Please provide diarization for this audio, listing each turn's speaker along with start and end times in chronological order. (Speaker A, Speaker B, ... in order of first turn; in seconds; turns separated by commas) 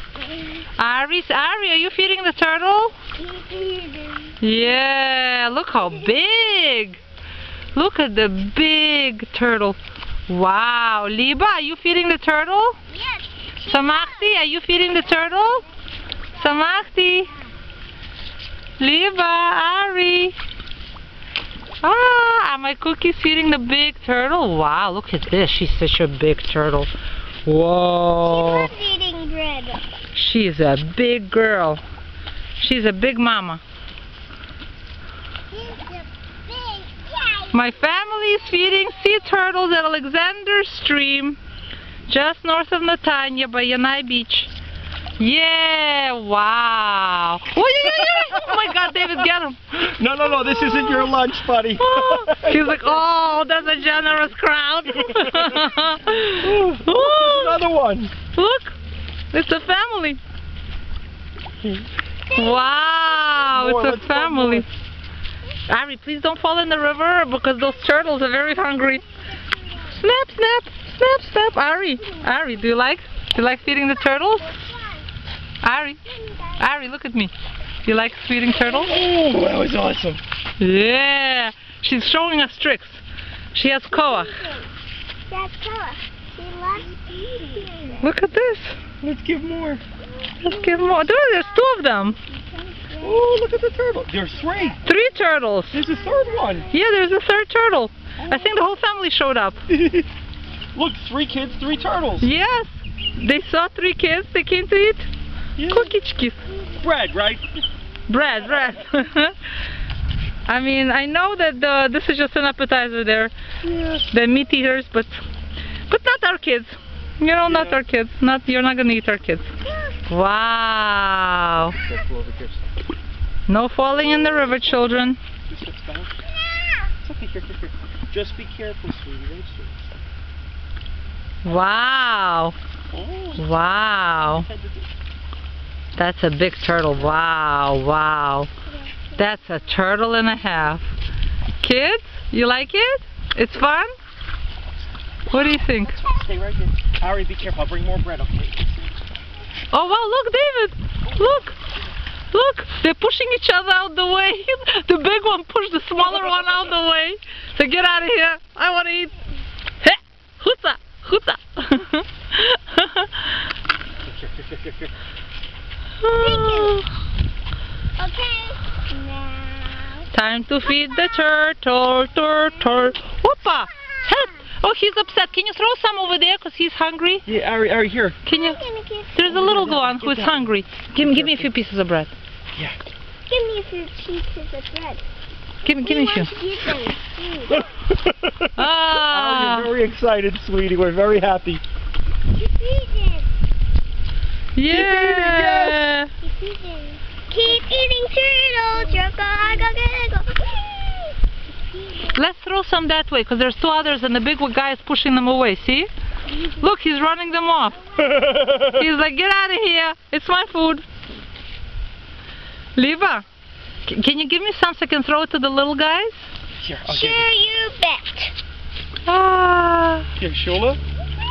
Speaker A: 0.8-3.0, Speaker B: 3.2-4.4, Speaker A: 4.4-7.0, Speaker A: 7.7-12.8, Speaker B: 12.9-14.4, Speaker A: 13.6-15.7, Speaker A: 16.3-17.3, Speaker B: 16.4-16.6, Speaker A: 18.8-20.4, Speaker A: 21.8-26.9, Speaker A: 27.4-28.7, Speaker B: 28.2-29.8, Speaker A: 30.1-31.8, Speaker A: 32.6-33.6, Speaker B: 35.5-37.7, Speaker A: 37.5-41.4, Speaker A: 42.1-44.5, Speaker A: 45.2-51.1, Speaker C: 48.0-49.1, Speaker C: 49.9-52.9, Speaker A: 51.8-57.6, Speaker C: 55.0-55.6, Speaker C: 56.4-58.1, Speaker A: 58.3-58.8, Speaker A: 59.3-60.2, Speaker B: 62.3-63.4, Speaker A: 62.3-64.7, Speaker C: 63.5-64.7, Speaker A: 65.7-69.0, Speaker B: 69.3-69.8, Speaker A: 69.9-74.6, Speaker B: 74.0-75.0, Speaker A: 75.6-76.0, Speaker B: 76.1-76.6, Speaker A: 76.6-77.3, Speaker A: 77.8-79.0, Speaker C: 78.6-80.2, Speaker A: 80.6-83.0, Speaker A: 83.5-84.3, Speaker B: 83.9-84.7, Speaker B: 85.3-88.1, Speaker A: 88.0-88.8, Speaker C: 89.0-89.8, Speaker B: 90.3-93.2, Speaker A: 90.4-92.2, Speaker C: 93.0-94.8, Speaker A: 94.8-95.8, Speaker C: 95.7-96.7, Speaker A: 96.7-99.6, Speaker C: 98.2-98.6, Speaker C: 99.7-100.1, Speaker C: 100.7-102.3, Speaker A: 102.2-105.1, Speaker C: 105.6-105.9, Speaker A: 105.7-106.5, Speaker C: 106.8-107.5, Speaker A: 108.1-109.3, Speaker A: 110.5-113.3, Speaker C: 113.6-114.0, Speaker A: 114.1-115.2, Speaker A: 115.9-119.5, Speaker C: 117.4-117.8, Speaker B: 119.7-120.0, Speaker A: 120.1-121.8, Speaker C: 121.7-122.6, Speaker A: 123.5-125.2, Speaker C: 125.5-126.2, Speaker C: 127.0-129.9, Speaker A: 131.4-132.5, Speaker C: 132.9-133.5, Speaker A: 133.4-134.5, Speaker C: 134.2-134.9, Speaker A: 135.9-138.5, Speaker B: 138.7-139.2, Speaker A: 139.2-140.9, Speaker A: 141.6-143.9, Speaker A: 145.3-146.0, Speaker C: 145.8-148.9, Speaker A: 149.7-151.6, Speaker A: 152.3-159.1, Speaker A: 159.8-163.4, Speaker C: 164.0-164.9, Speaker A: 166.0-166.8, Speaker B: 166.2-166.8, Speaker B: 168.0-170.1, Speaker A: 170.1-177.3, Speaker C: 177.2-178.2, Speaker A: 178.2-178.6, Speaker B: 178.3-179.2, Speaker A: 179.1-182.1, Speaker C: 179.3-181.5, Speaker B: 183.3-185.0, Speaker A: 185.6-186.3, Speaker B: 185.7-187.7, Speaker C: 187.5-191.6, Speaker A: 188.5-189.7, Speaker B: 192.3-193.3, Speaker A: 194.6-196.1, Speaker C: 194.7-195.9, Speaker B: 196.2-201.1, Speaker B: 201.8-202.1, Speaker A: 202.1-205.9, Speaker A: 206.6-210.8, Speaker C: 208.0-208.8, Speaker A: 212.8-213.2, Speaker A: 213.8-216.2, Speaker C: 216.6-217.3, Speaker B: 216.9-218.3, Speaker A: 219.1-220.1, Speaker C: 220.2-220.8